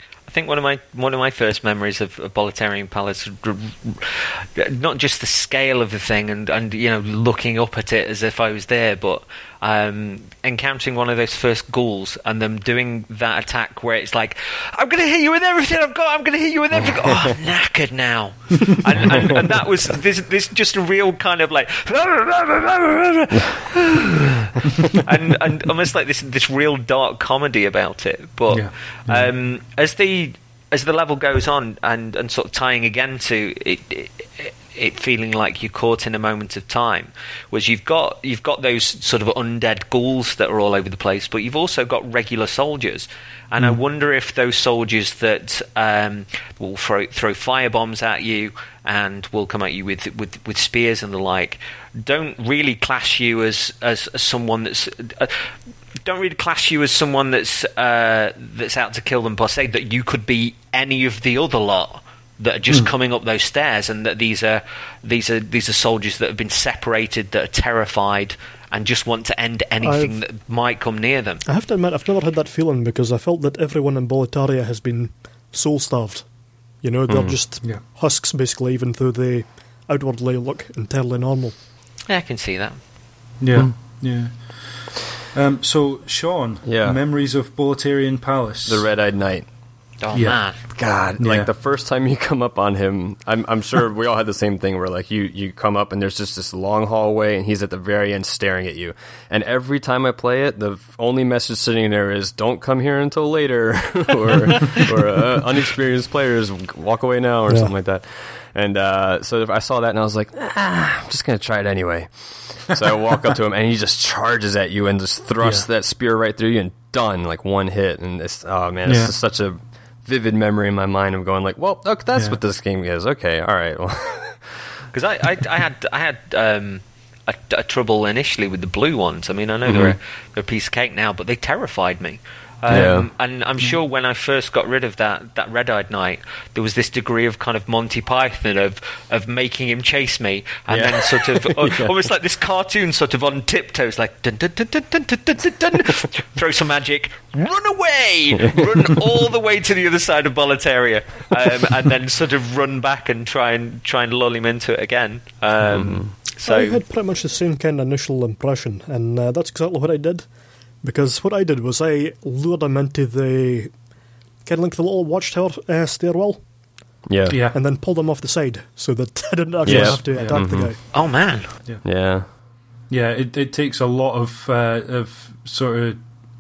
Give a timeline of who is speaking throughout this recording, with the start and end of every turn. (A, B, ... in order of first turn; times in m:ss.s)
0:00.3-1:11.4 A
1:09.8-1:10.2 B
1:11.5-1:16.3 B
1:16.8-1:21.6 B
1:17.1-1:17.4 C
1:22.1-1:22.8 A
1:23.4-1:28.9 D
1:26.7-1:27.0 C
1:28.7-1:29.5 C
1:30.0-1:30.6 A
1:30.1-1:30.4 D
1:30.7-2:04.6 C
1:31.2-1:31.5 D
1:47.5-1:47.7 B
1:58.9-1:59.1 D
2:04.9-2:36.8 A
2:09.7-2:10.0 C
2:12.7-2:13.1 C
2:20.7-2:21.9 C
2:35.6-2:36.1 C
2:36.4-2:40.3 B
2:40.8-2:43.7 B
2:44.4-2:46.4 B
2:47.1-2:47.4 C
2:47.3-2:47.6 D
2:47.5-2:50.8 B
2:49.6-2:50.4 D
2:49.6-2:50.8 C
2:50.9-2:51.6 A
2:51.8-2:52.3 C
2:52.9-2:56.0 D